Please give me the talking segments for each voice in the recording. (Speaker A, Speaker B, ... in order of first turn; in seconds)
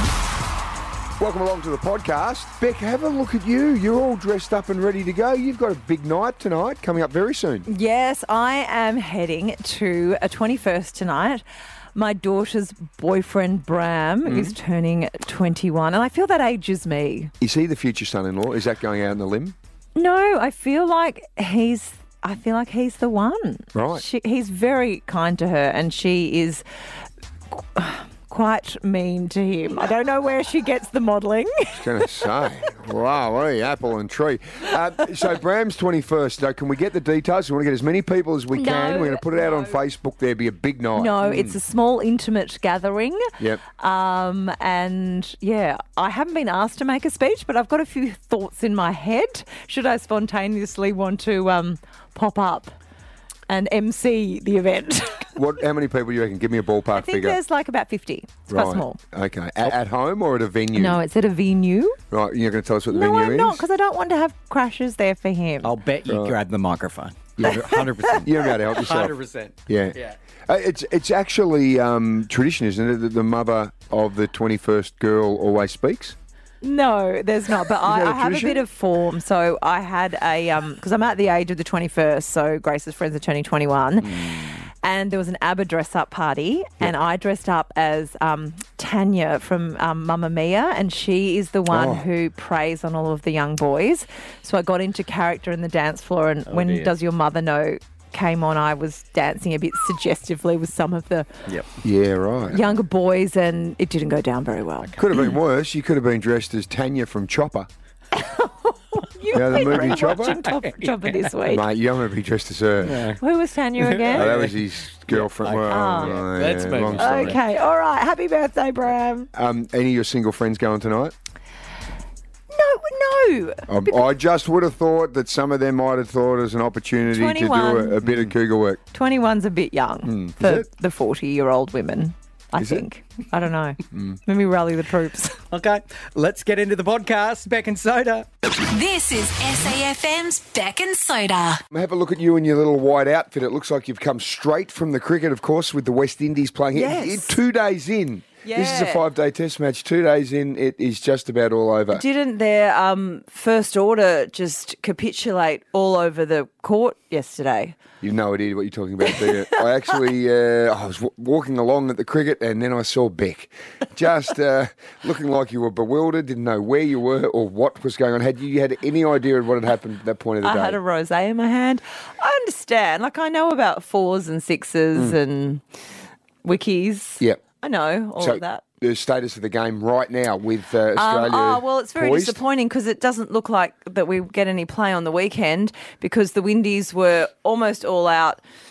Speaker A: 1.2-7.7, 14.2-14.6, 17.4-19.5, 23.7-24.0, 31.8-41.6, 55.4-57.4, 58.5-61.0, 62.1-63.6, 66.1-66.4, 67.4-69.1, 69.7-76.2, 77.8-78.6, 91.7-92.0, 101.8-102.6, 105.0-107.7, 109.3-110.4, 111.5-113.1, 114.1-117.4, 119.3-121.1, 123.7-128.8, 130.0-130.7, 132.6-132.8, 141.7-152.0, 158.0-170.8, 178.2-182.4
Speaker B: 7.7-11.4, 11.9-17.3, 19.9-26.6, 27.7-31.8, 38.6-39.4, 40.9-52.7, 53.5-55.3, 56.9-59.0, 60.7-62.0, 62.9-65.8, 67.4-68.2, 76.6-101.3, 102.5-104.9, 108.1-111.6, 113.2-114.3, 115.7-116.2, 117.0-119.3, 122.5-124.0, 127.1-128.0, 128.9-135.4, 146.7-147.4, 148.4-149.0, 151.9-157.8, 159.0-159.6, 170.4-175.6, 176.4-178.6, 180.9-188.4
Speaker C: 65.6-70.2, 96.5-96.9, 109.5-111.3, 112.8-113.2, 113.8-117.4, 128.0-128.3, 135.5-138.3
Speaker D: 138.5-141.6